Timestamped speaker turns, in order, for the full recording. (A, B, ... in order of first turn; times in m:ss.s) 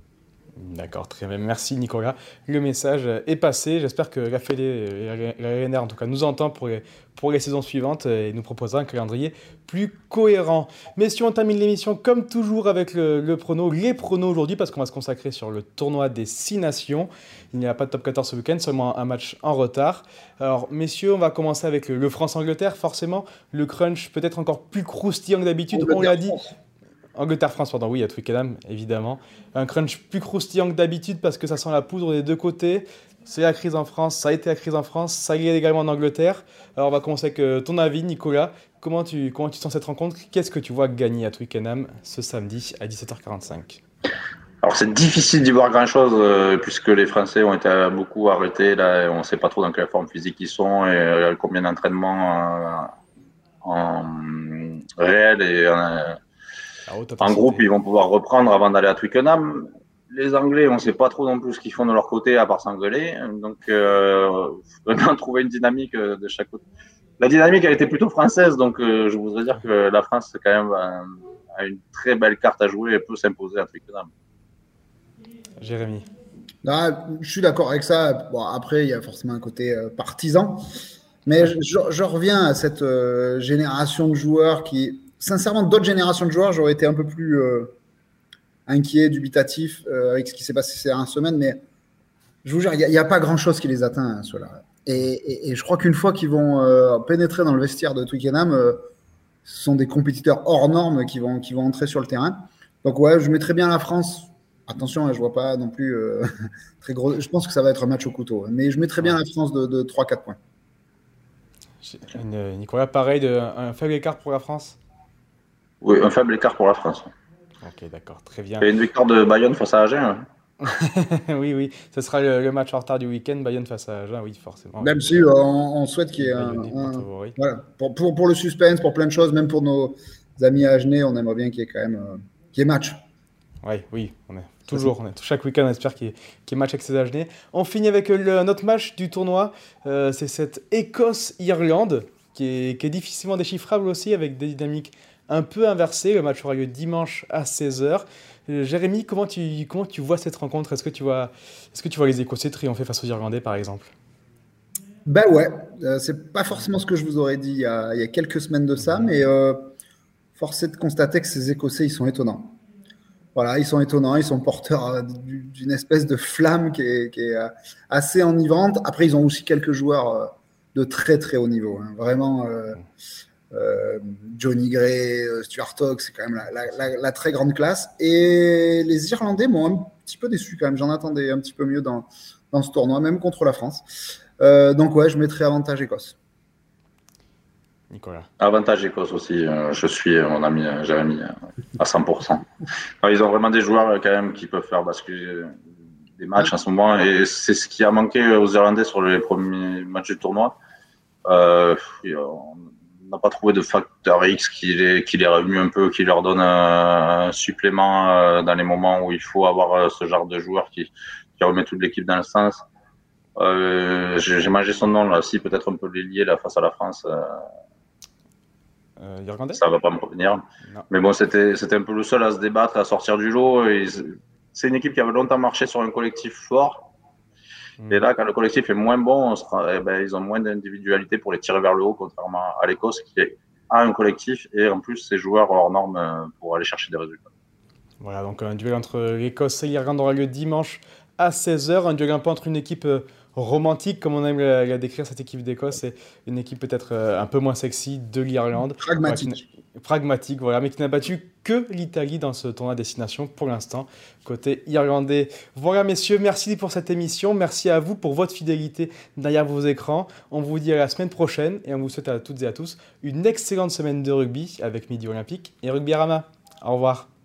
0:00.6-0:26.4 A
0:25.7-0:26.5 B
0:27.2-0:43.8 A
0:44.6-0:52.9 C
0:53.6-0:56.2 C
0:56.9-0:57.7 A
0:57.2-1:06.6 C
1:07.2-1:14.1 C
1:15.6-1:16.1 A
1:16.6-1:20.7 B
1:21.2-1:27.8 B
1:28.7-1:31.6 B
1:32.4-1:38.9 B
1:39.4-1:46.3 B
1:46.8-1:50.4 B
1:51.8-1:54.8 A
1:55.8-1:57.1 C
1:57.6-1:58.7 A
1:58.6-2:00.3 C
2:00.6-2:05.3 A
2:04.8-2:13.0 B
2:06.2-2:07.4 A
2:13.6-2:33.9 A
2:35.1-2:39.7 B
2:40.4-2:42.6 B
2:43.4-2:52.8 B
2:53.5-3:03.8 B
3:04.4-3:06.2 B
3:07.9-3:08.3 A
3:08.4-3:12.5 C
3:13.0-3:15.6 C
3:16.2-3:20.6 C
3:21.3-3:32.6 C
3:33.4-3:37.5 C
3:39.0-3:39.6 A
3:39.6-3:46.9 C
3:47.8-3:48.1 A
3:47.9-3:57.3 C
3:58.0-4:27.1 A
4:08.8-4:09.4 B